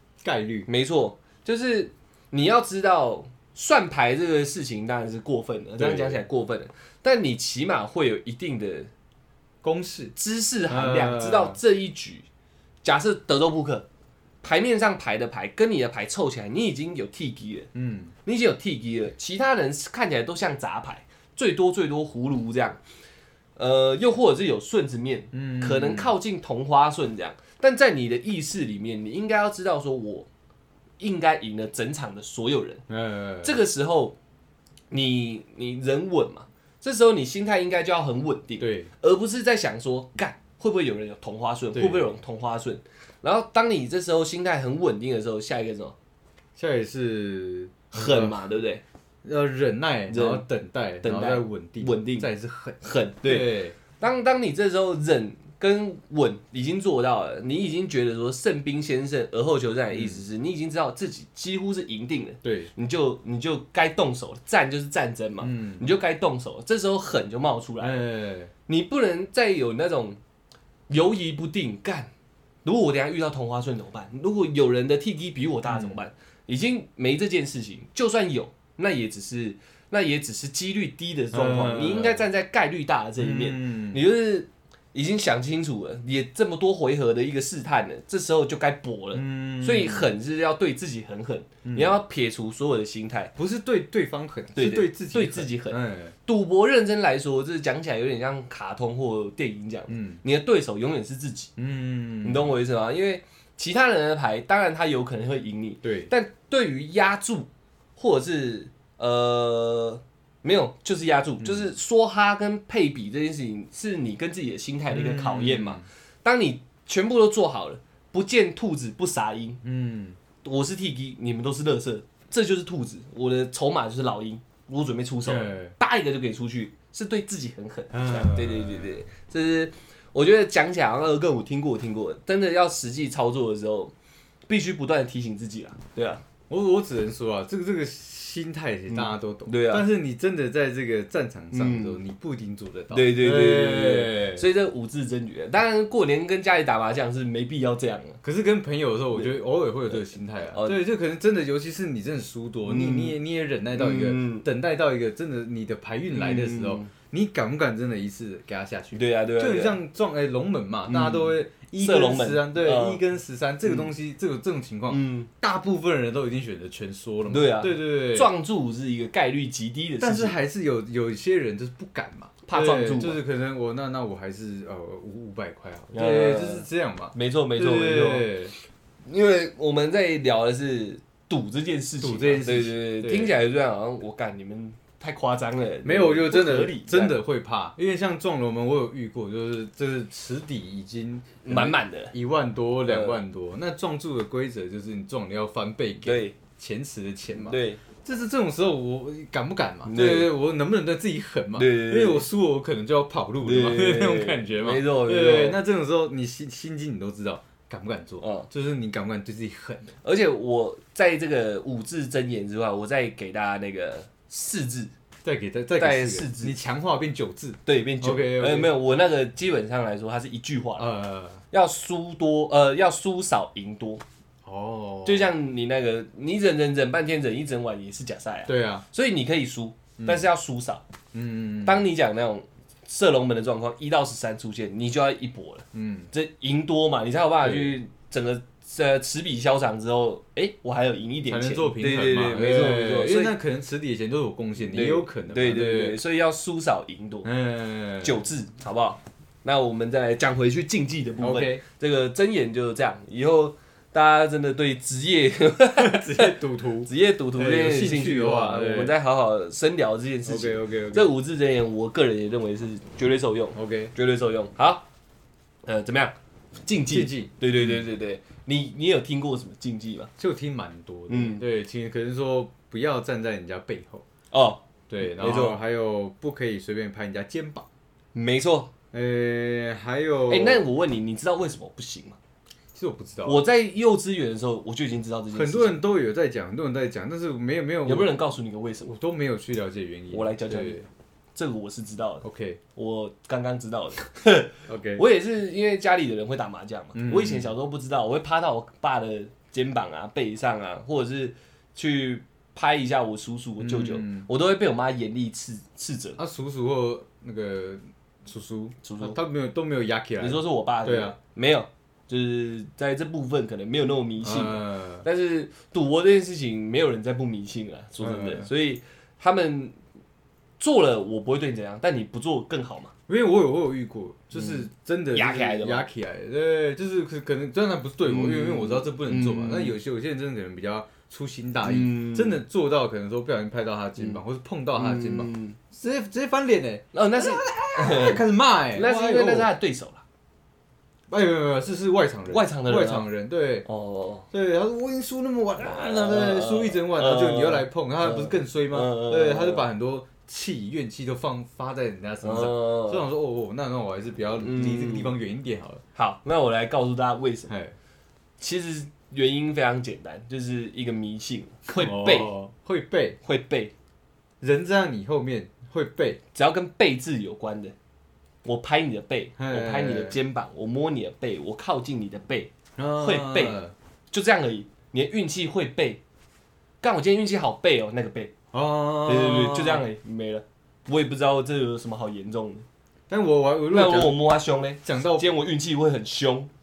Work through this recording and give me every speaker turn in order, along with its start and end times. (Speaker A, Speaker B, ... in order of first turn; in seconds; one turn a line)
Speaker A: 0.2-0.7
Speaker B: 0.7-8.9
Speaker A: 5.8-6.2
Speaker A: 9.6-10.1
Speaker B: 10.2-12.2
Speaker A: 10.7-11.6
Speaker B: 12.8-13.8
Speaker B: 14.4-17.7
Speaker A: 17.7-18.1
Speaker B: 18.2-22.8
Speaker B: 23.6-30.3
Speaker A: 25.3-26.1
Speaker B: 31.0-32.8
Speaker A: 32.9-33.6
Speaker B: 33.4-34.1
Speaker B: 34.9-45.9
Speaker A: 38.6-38.9
Speaker A: 41.7-42.1
Speaker A: 46.5-48.4
Speaker B: 47.9-48.8
Speaker A: 49.2-53.8
Speaker B: 50.1-50.4
Speaker B: 51.0-52.3
Speaker B: 52.8-68.0
Speaker A: 59.9-60.2
Speaker A: 62.4-62.7
Speaker A: 65.4-65.9
Speaker A: 67.8-68.5
Speaker B: 68.7-70.2
Speaker B: 70.9-72.1
Speaker B: 72.6-93.3
Speaker A: 75.7-76.0
Speaker A: 81.3-82.2
Speaker A: 83.2-84.0
Speaker A: 89.1-90.1
Speaker A: 91.6-92.0
Speaker A: 93.3-96.1
Speaker B: 94.5-101.5
Speaker A: 99.9-100.2
Speaker A: 101.6-102.5
Speaker B: 102.2-119.6
Speaker A: 105.8-106.1
Speaker A: 111.4-111.7
Speaker A: 114.9-115.8
Speaker A: 119.6-120.2
Speaker B: 120.4-133.9
Speaker A: 125.2-125.7
Speaker A: 127.9-128.9
Speaker B: 134.5-136.2
Speaker A: 136.5-144.4
Speaker B: 138.9-139.8
Speaker B: 141.5-142.0
Speaker B: 142.9-148.2
Speaker A: 148.2-168.3
Speaker B: 149.9-150.8
Speaker B: 152.7-153.2
Speaker B: 153.7-154.4
Speaker B: 156.1-156.9
Speaker B: 158.9-159.8
Speaker B: 160.9-163.0
Speaker B: 164.9-165.3
Speaker B: 167.3-170.3
Speaker A: 170.0-178.5
Speaker B: 172.4-173.2
Speaker B: 175.9-178.3
Speaker B: 179.0-187.2
Speaker A: 182.0-183.3
Speaker A: 185.8-209.9
Speaker B: 191.4-192.1
Speaker B: 192.9-193.2
Speaker B: 196.0-196.4
Speaker B: 197.4-197.8
Speaker B: 199.8-200.3
Speaker B: 201.6-202.3
Speaker B: 203.4-205.6
Speaker B: 208.2-208.5
Speaker B: 210.0-214.9
Speaker A: 215.2-218.7
Speaker B: 215.8-216.6
Speaker B: 217.7-220.9
Speaker A: 220.8-221.4
Speaker B: 221.5-224.0
Speaker A: 224.4-225.3
Speaker B: 225.0-230.8
Speaker A: 228.5-228.8
Speaker A: 230.0-230.3
Speaker A: 231.1-231.8
Speaker B: 231.6-243.3
Speaker A: 235.7-236.1
Speaker A: 237.4-237.8
Speaker A: 241.2-246.0
Speaker B: 244.7-247.3
Speaker A: 247.2-248.2
Speaker B: 248.0-264.9
Speaker A: 251.2-251.6
Speaker A: 255.7-258.9
Speaker A: 260.2-261.1
Speaker A: 263.5-263.9
Speaker B: 265.6-270.1
Speaker A: 266.9-267.8
Speaker A: 270.2-274.0
Speaker B: 271.1-271.4
Speaker B: 274.3-275.6
Speaker A: 274.9-277.7
Speaker B: 278.1-278.7
Speaker A: 278.9-280.6
Speaker B: 280.3-282.2
Speaker A: 282.7-283.4
Speaker B: 283.2-285.8
Speaker A: 285.3-288.1
Speaker B: 287.8-288.9
Speaker A: 288.8-290.9
Speaker B: 290.1-290.8
Speaker B: 291.4-292.2
Speaker A: 292.2-292.6
Speaker B: 292.8-306.2
Speaker A: 294.7-295.0
Speaker A: 296.9-297.5
Speaker A: 303.6-304.3
Speaker A: 306.2-311.2
Speaker B: 308.8-309.2
Speaker B: 310.2-319.8
Speaker A: 314.2-315.0
Speaker A: 318.0-318.5
Speaker B: 320.6-322.9
Speaker A: 323.1-339.5
Speaker B: 324.3-325.9
Speaker B: 328.0-329.8
Speaker B: 331.6-332.4
Speaker B: 334.8-335.6
Speaker B: 336.9-338.2
Speaker B: 338.7-340.0
Speaker A: 341.1-343.7
Speaker B: 342.3-343.1
Speaker B: 343.6-344.2
Speaker A: 344.3-355.8
Speaker B: 345.6-349.6
Speaker B: 352.2-353.1
Speaker B: 354.4-355.1
Speaker B: 355.9-357.5
Speaker A: 357.5-357.7
Speaker B: 358.4-362.3
Speaker A: 361.7-363.2
Speaker B: 363.2-363.7
Speaker A: 364.4-366.2
Speaker B: 366.3-367.7
Speaker B: 368.4-373.6
Speaker A: 369.4-370.2
Speaker A: 372.8-373.7
Speaker B: 374.1-376.0
Speaker B: 376.8-378.3
Speaker A: 378.5-379.8
Speaker B: 379.1-382.6
Speaker A: 383.1-384.2
Speaker B: 383.7-386.5
Speaker A: 384.8-385.3